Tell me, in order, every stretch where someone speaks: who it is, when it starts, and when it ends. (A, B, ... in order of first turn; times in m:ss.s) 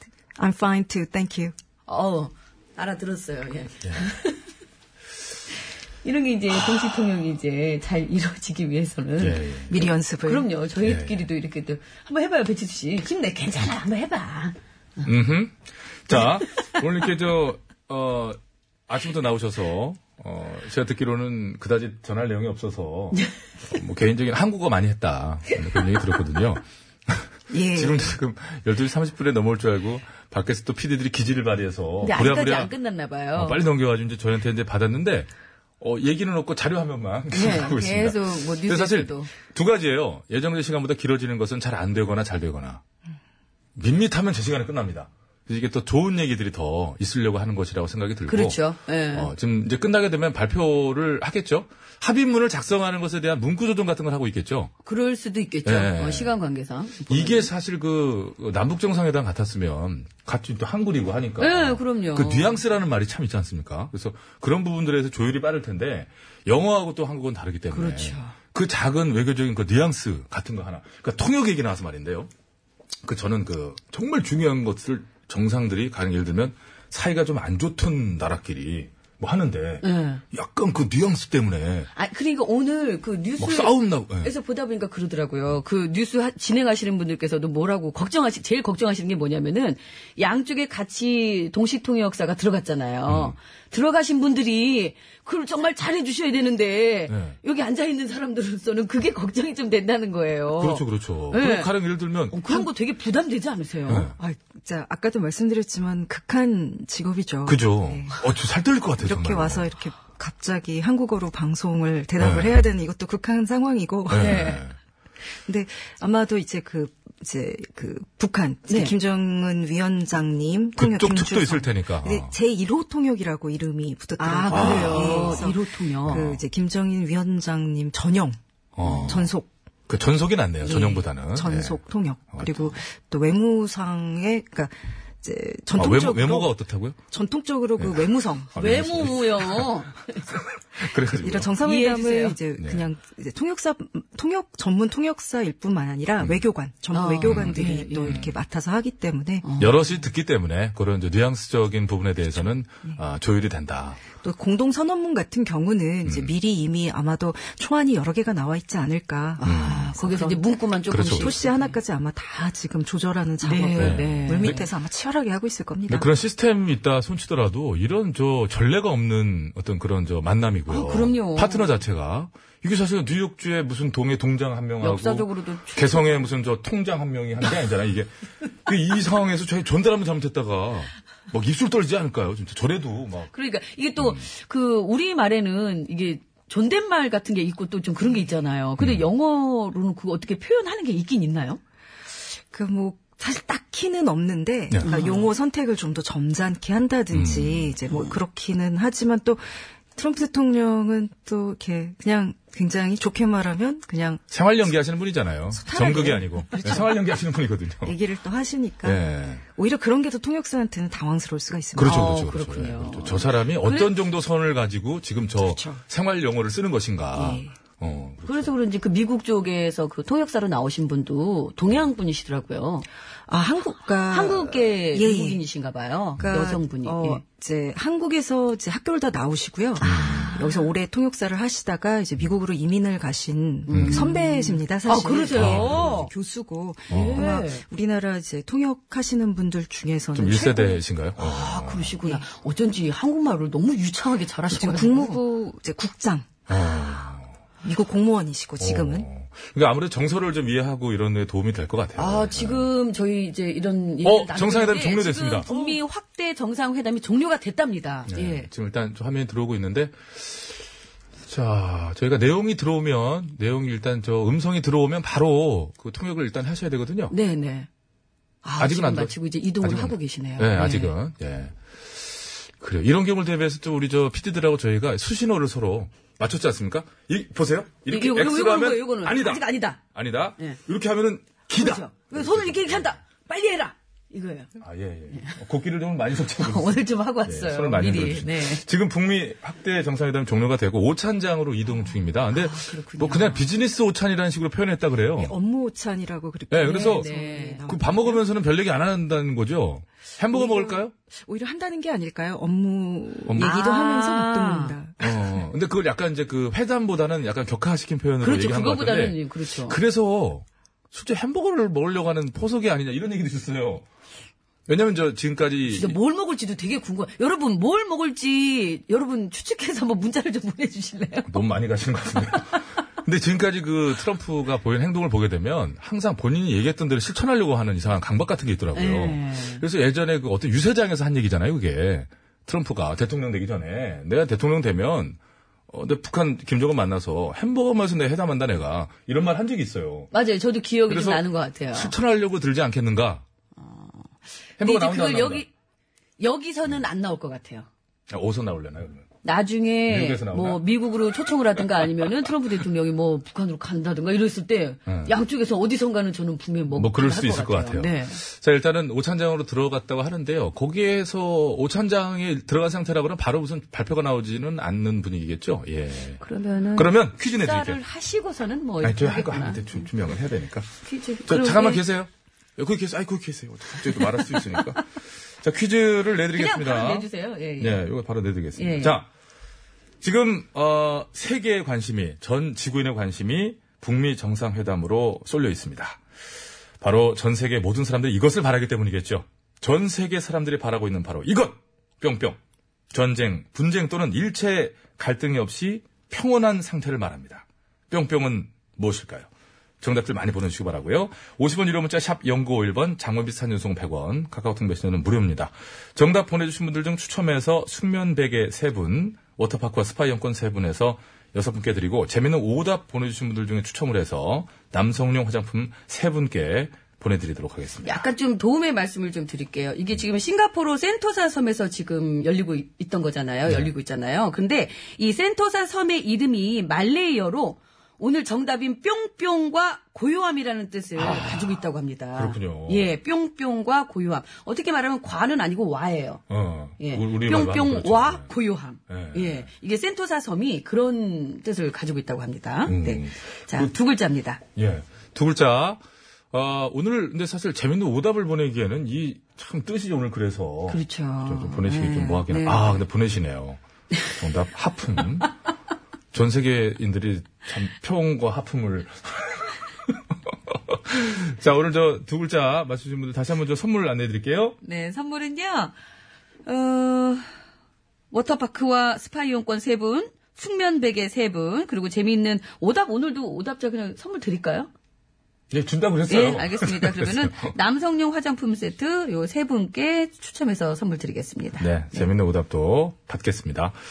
0:00.4-0:01.5 A
0:01.9-0:04.4 B
0:03.8-0:04.1 C
0:06.0-0:09.4 B
0:09.2-0:09.8 C
0:09.7-0:10.5 A
0:10.3-0:14.6 B
0:10.8-0:11.3 C
0:15.0-0:32.7 C
0:27.5-0:28.2 A
0:32.0-0:33.6 B
0:33.4-0:35.3 C
0:35.8-0:42.8 C
0:37.3-0:39.3 B
0:43.8-0:48.6 C
0:48.3-0:49.3 B
0:49.1-0:54.7 C
0:54.8-0:57.5 B
0:55.6-0:56.3 C
0:57.1-1:12.3 C
1:01.4-1:02.6 B
1:07.7-1:08.4 B
1:13.0-1:21.9 C
1:19.8-1:20.2 B
1:21.9-1:41.7 B
1:23.4-1:24.3 C
1:33.1-1:33.4 C
1:37.1-1:37.4 C
1:40.6-1:42.6 C
1:42.3-1:44.1 B
1:43.9-1:44.2 C
1:44.2-1:48.2 A
1:47.5-1:49.7 C
1:49.0-1:54.6 A
1:52.2-1:52.6 C
1:54.1-1:54.8 C
1:54.2-1:54.6 B
1:55.4-2:09.5 A
1:58.7-1:58.9 B
2:00.8-2:02.3 C
2:04.2-2:06.2 B
2:04.5-2:05.5 C
2:06.0-2:06.4 C
2:08.8-2:09.3 C
2:09.9-2:11.8 C
2:10.6-2:16.6 A
2:12.3-2:12.8 C
2:15.8-2:17.0 C
2:17.1-2:18.5 A
2:17.8-2:19.8 C
2:18.6-2:20.2 B
2:20.8-2:21.5 C
2:21.1-2:29.5 A
2:21.6-2:22.4 B
2:22.6-2:22.9 C
2:26.9-2:28.2 B
2:27.2-2:28.3 C
2:29.4-2:29.9 B
2:29.6-2:34.0 C
2:34.2-2:46.1 A
2:36.0-2:36.3 C
2:39.4-2:41.7 B
2:39.4-2:39.9 C
2:40.9-2:41.3 C
2:43.4-2:44.7 B
2:43.8-2:44.6 C
2:45.9-2:58.1 C
2:50.7-2:51.7 B
2:54.8-2:56.3 B
2:58.6-3:03.3 C
3:03.3-3:11.6 B
3:08.8-3:09.0 C
3:12.5-3:24.2 A
3:14.7-3:15.0 C
3:14.8-3:15.3 B
3:17.1-3:17.8 C
3:24.3-3:28.0 C
3:25.5-3:27.0 A
3:27.8-3:29.0 A
3:28.8-3:29.4 C
3:29.5-3:32.1 A
3:31.8-3:38.5 C
3:31.8-3:33.9 B
3:35.4-3:35.8 A
3:37.1-3:37.5 A
3:38.3-3:42.9 B
3:43.3-3:45.4 A
3:44.1-3:47.2 B
3:46.2-4:00.8 A
3:49.8-3:50.7 B
3:49.8-3:50.4 C
3:53.7-3:56.1 B
3:53.7-3:54.1 C
3:55.4-3:55.9 C
3:56.9-3:57.3 C
3:56.9-3:57.6 B
4:00.2-4:02.0 C
4:01.2-4:05.2 B
4:04.5-4:06.5 A
4:06.5-4:07.3 C
4:07.6-4:09.1 A
4:08.6-4:12.7 C
4:12.0-4:18.5 B
4:14.0-4:15.5 C
4:15.5-4:15.8 A
4:18.1-4:20.6 C
4:21.3-4:27.1 C
4:27.1-4:27.7 B
4:28.4-4:30.9 B
4:28.6-4:42.9 C
4:37.9-4:39.8 B
4:41.5-4:44.5 B
4:44.6-4:55.4 C
4:46.4-4:48.6 B
4:52.3-4:53.5 B
4:55.2-4:58.2 A
4:56.5-4:57.1 C
4:56.7-4:57.6 B
4:57.6-5:00.9 C
5:00.3-5:05.4 A
5:03.4-5:04.8 B
5:05.0-5:13.9 C
5:08.2-5:09.8 B
5:14.7-5:16.0 C
5:15.7-5:21.3 B
5:21.3-5:35.2 C
5:28.7-5:29.6 B
5:35.7-5:40.1 C
5:40.1-5:41.9 B
5:40.9-5:43.2 C
5:43.6-5:45.5 B
5:44.6-5:45.5 C
5:46.2-5:47.7 B
5:48.1-5:49.1 C
5:49.2-5:58.2 B
5:49.9-5:50.6 C
5:54.9-5:55.1 C
5:56.7-6:06.2 C
6:06.2-6:09.9 B
6:06.8-6:07.8 C
6:08.8-6:10.7 C
6:10.8-6:11.8 B
6:11.3-6:17.1 C
6:14.0-6:14.4 B
6:16.4-6:17.8 B
6:17.6-6:19.1 C
6:18.6-6:19.0 B
6:20.0-6:26.0 C
6:26.8-6:32.4 C
6:32.9-6:39.3 C
6:39.8-6:58.0 C
6:57.8-7:16.2 B
7:11.0-7:11.6 C
7:12.2-7:12.9 C
7:16.3-7:18.3 C
7:16.8-7:24.4 B
7:18.9-7:19.5 C
7:22.7-7:23.7 C
7:24.6-7:25.8 C
7:26.3-7:33.6 C
7:30.7-7:32.8 B
7:34.1-7:35.3 C
7:36.1-7:40.0 C
7:40.5-7:44.6 C
7:44.6-7:45.7 B
7:46.5-7:47.3 B
7:48.1-7:54.7 B
7:55.5-7:57.5 C
7:56.1-8:02.1 B
8:01.6-8:03.8 C